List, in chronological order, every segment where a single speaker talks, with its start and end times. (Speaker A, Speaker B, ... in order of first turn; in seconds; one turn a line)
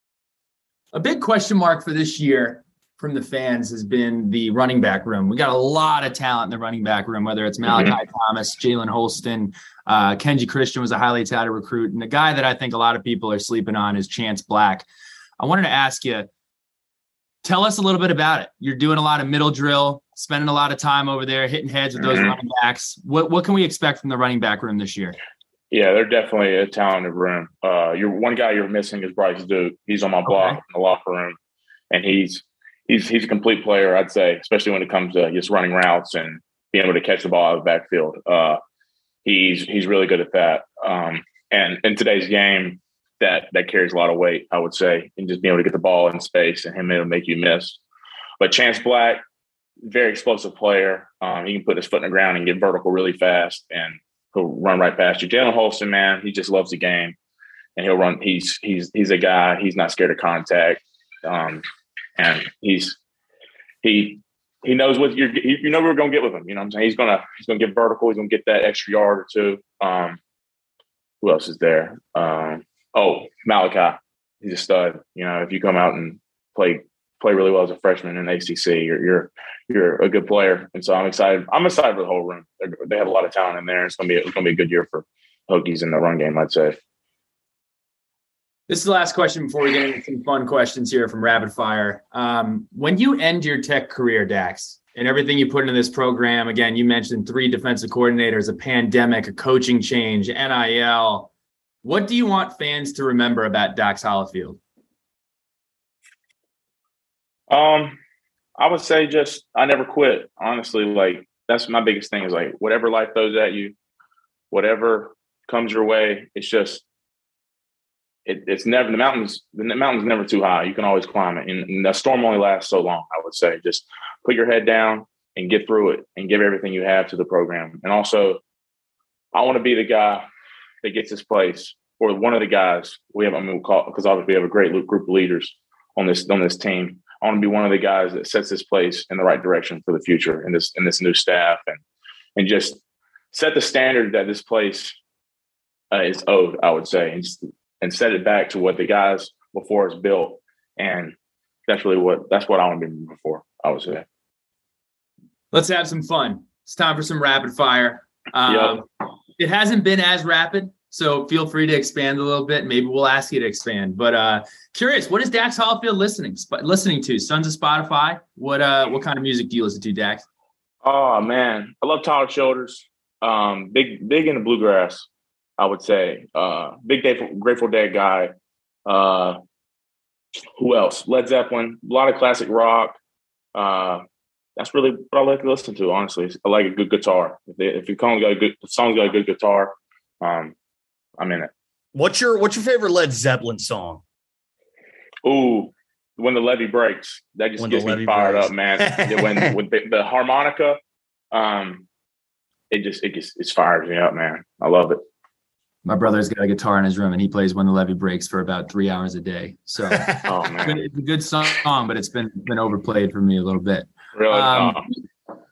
Speaker A: 0.9-14.8
Speaker A: 15.4-16.3
Speaker A: 17.4-25.2
Speaker B: 22.0-22.3
Speaker B: 25.7-31.4
Speaker A: 30.2-30.6
Speaker B: 31.9-38.6
Speaker B: 39.2-47.8
Speaker B: 48.4-49.2
Speaker B: 49.8-57.1
Speaker B: 57.8-61.6
Speaker B: 62.2-63.0
Speaker B: 63.8-70.2
Speaker B: 71.2-86.8
Speaker A: 88.7-101.3
Speaker A: 101.8-104.6
Speaker B: 107.5-108.0
Speaker B: 108.6-113.7
Speaker B: 114.5-116.8
Speaker B: 118.2-128.4
Speaker B: 129.3-130.2
Speaker B: 130.8-141.8
Speaker B: 142.3-142.8
Speaker B: 143.3-145.0
Speaker B: 145.9-151.1
Speaker B: 151.7-154.0
Speaker A: 155.5-158.8
Speaker B: 158.5-158.8
Speaker A: 159.4-170.2
Speaker B: 170.8-175.1
Speaker B: 175.6-178.3
Speaker B: 178.8-179.4
Speaker B: 180.5-182.9
Speaker B: 183.5-184.0
Speaker B: 184.6-190.5
Speaker B: 191.2-191.5
Speaker C: 191.9-194.0
Speaker B: 195.2-200.8
Speaker C: 197.6-199.6
Speaker B: 201.3-201.8
Speaker B: 202.7-205.0
Speaker A: 205.8-215.0
Speaker C: 209.9-210.2
Speaker B: 210.2-210.8
Speaker B: 214.1-214.9